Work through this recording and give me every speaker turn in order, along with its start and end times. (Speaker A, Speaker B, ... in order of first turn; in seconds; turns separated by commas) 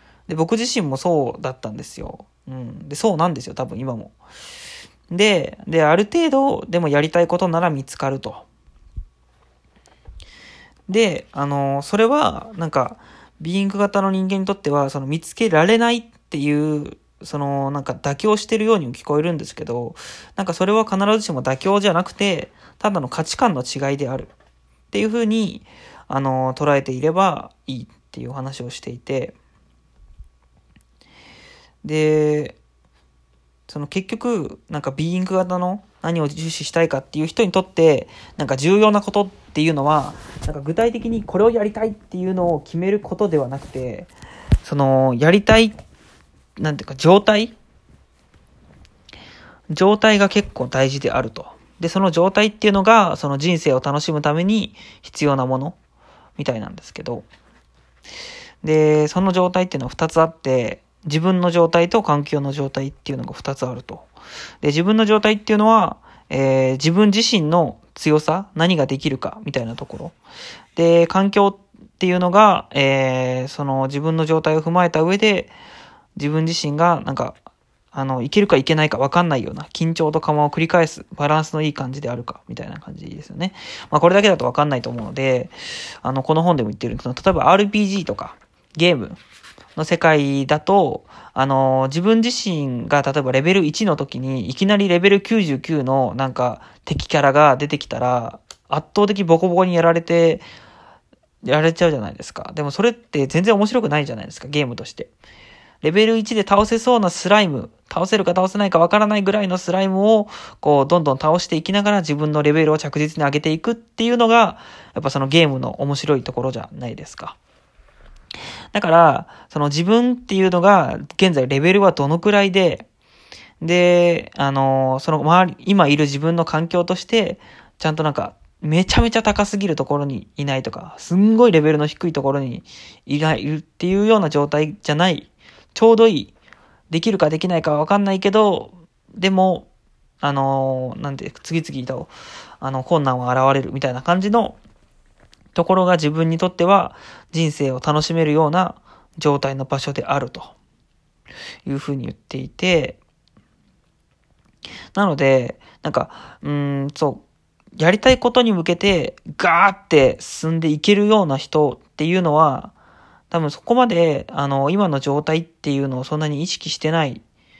Speaker A: 0.3-4.2, Speaker A: 5.1-8.4, Speaker A: 10.9-24.3, Speaker A: 24.9-29.4, Speaker A: 31.8-32.6, Speaker A: 33.7-44.1, Speaker A: 44.6-45.8, Speaker A: 46.6-47.5, Speaker A: 49.7-55.8, Speaker A: 56.4-57.3, Speaker A: 58.6-64.1, Speaker A: 64.6-70.2, Speaker A: 70.8-75.5, Speaker A: 76.2-77.3, Speaker A: 77.9-89.2, Speaker A: 89.8-100.4, Speaker A: 101.4-105.1, Speaker A: 105.8-117.4, Speaker A: 118.7-122.9, Speaker A: 123.6-136.3, Speaker A: 136.9-139.7, Speaker A: 140.2-144.6, Speaker A: 145.6-150.6, Speaker A: 151.7-153.0, Speaker A: 154.9-157.2, Speaker A: 157.8-162.7, Speaker A: 163.3-167.2